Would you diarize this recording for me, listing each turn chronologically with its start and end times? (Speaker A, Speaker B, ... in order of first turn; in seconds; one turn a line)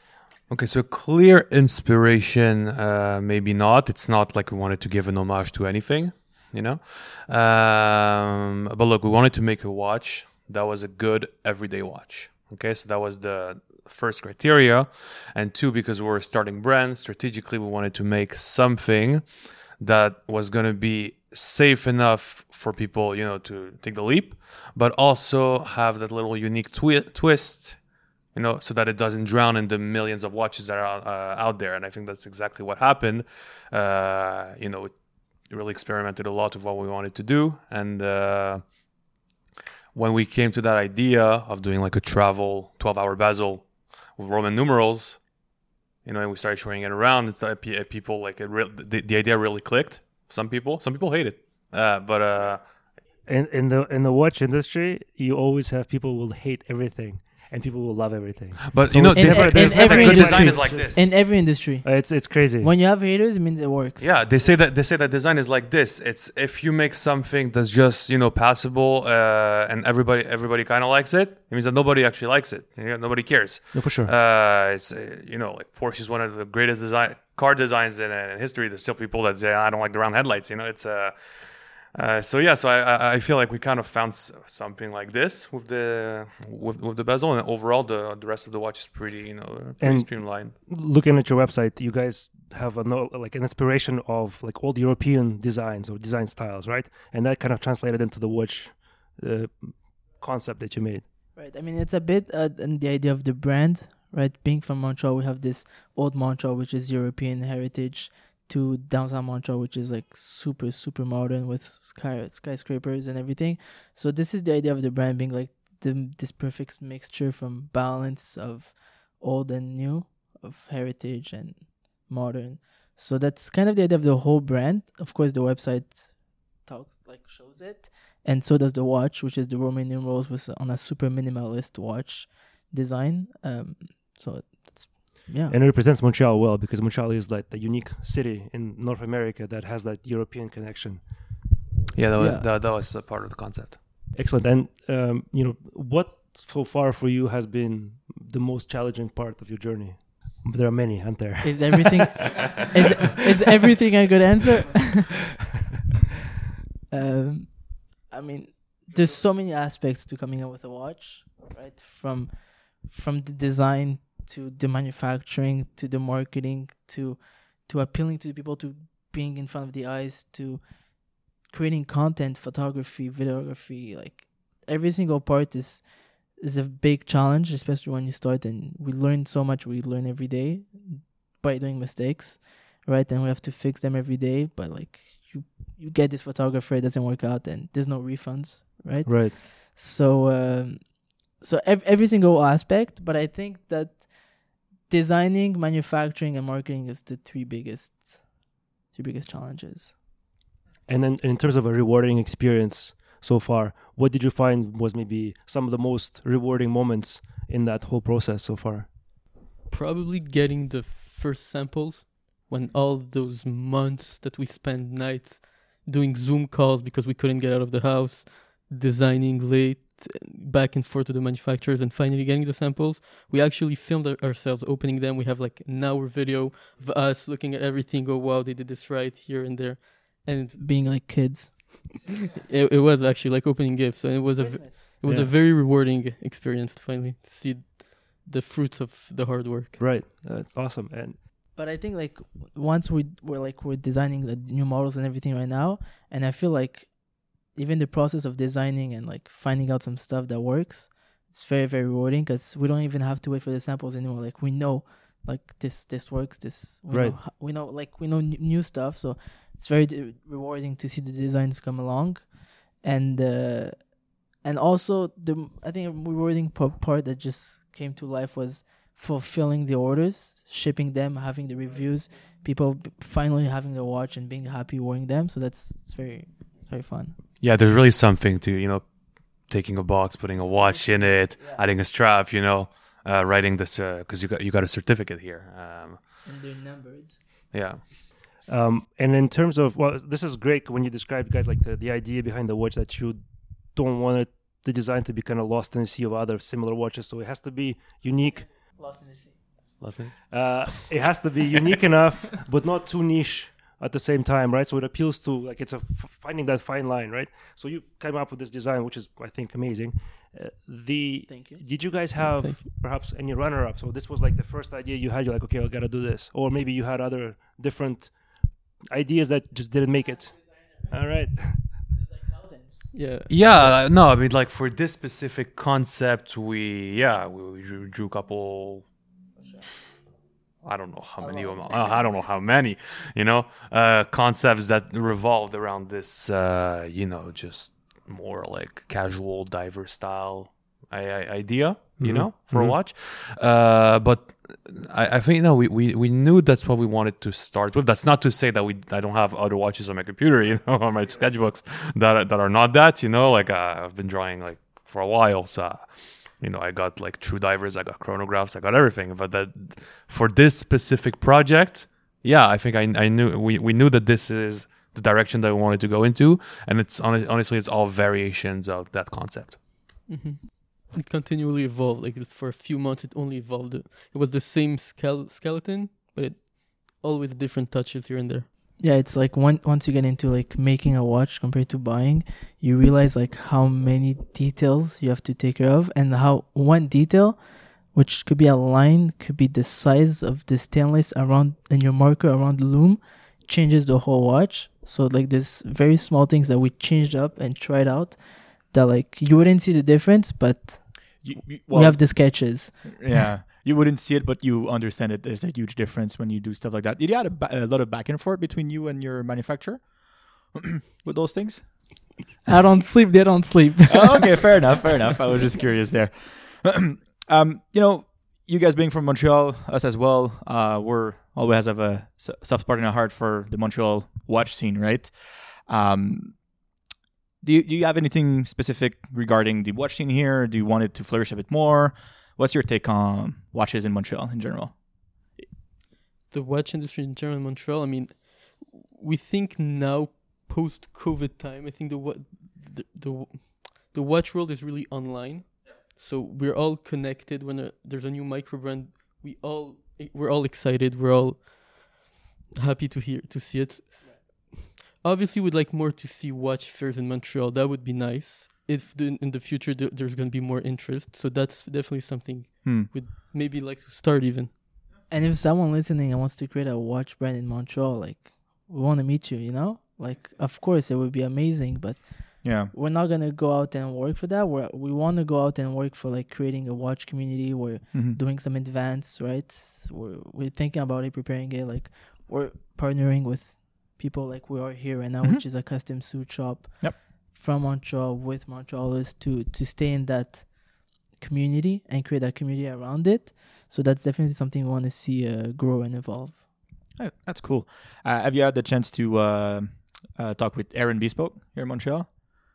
Speaker A: 0.5-38.8
Speaker A: 39.9-45.3
Speaker A: 46.0-52.9
Speaker B: 53.2-62.7
Speaker A: 58.6-61.1
Speaker C: 59.1-64.1
Speaker A: 64.0-90.5
Speaker B: 73.7-74.1
Speaker B: 89.8-101.0
Speaker C: 101.3-135.5
Speaker B: 135.5-141.4
Speaker A: 141.9-143.8
Speaker C: 142.2-142.4
Speaker B: 144.1-152.6
Speaker C: 151.4-155.2
Speaker C: 156.9-199.9
Speaker B: 189.0-189.4
Speaker B: 200.9-208.9
Speaker D: 209.7-230.6
Speaker C: 230.6-232.1
Speaker D: 232.5-239.8
Speaker C: 234.3-234.8
Speaker B: 235.0-235.3
Speaker B: 239.8-241.2
Speaker C: 241.5-277.2
Speaker B: 256.9-257.2
Speaker A: 277.4-286.2
Speaker C: 280.6-281.6
Speaker C: 286.2-287.2
Speaker A: 287.5-287.8
Speaker B: 288.4-298.6
Speaker C: 298.8-299.8
Speaker A: 299.8-300.9
Speaker B: 300.3-321.9
Speaker C: 311.3-311.6
Speaker D: 312.1-312.6
Speaker C: 322.4-322.9
Speaker D: 322.9-323.8
Speaker A: 323.3-328.9
Speaker C: 329.4-329.6
Speaker A: 330.6-369.6
Speaker C: 331.2-332.1
Speaker B: 342.0-342.8
Speaker D: 370.1-378.4
Speaker C: 378.8-403.2
Speaker E: 401.2-412.2
Speaker C: 412.5-414.2
Speaker E: 413.9-426.5
Speaker E: 427.4-435.4
Speaker D: 436.3-464.5
Speaker E: 462.6-462.9
Speaker C: 465.1-496.5
Speaker E: 472.4-472.7
Speaker E: 477.9-478.2
Speaker E: 496.9-502.1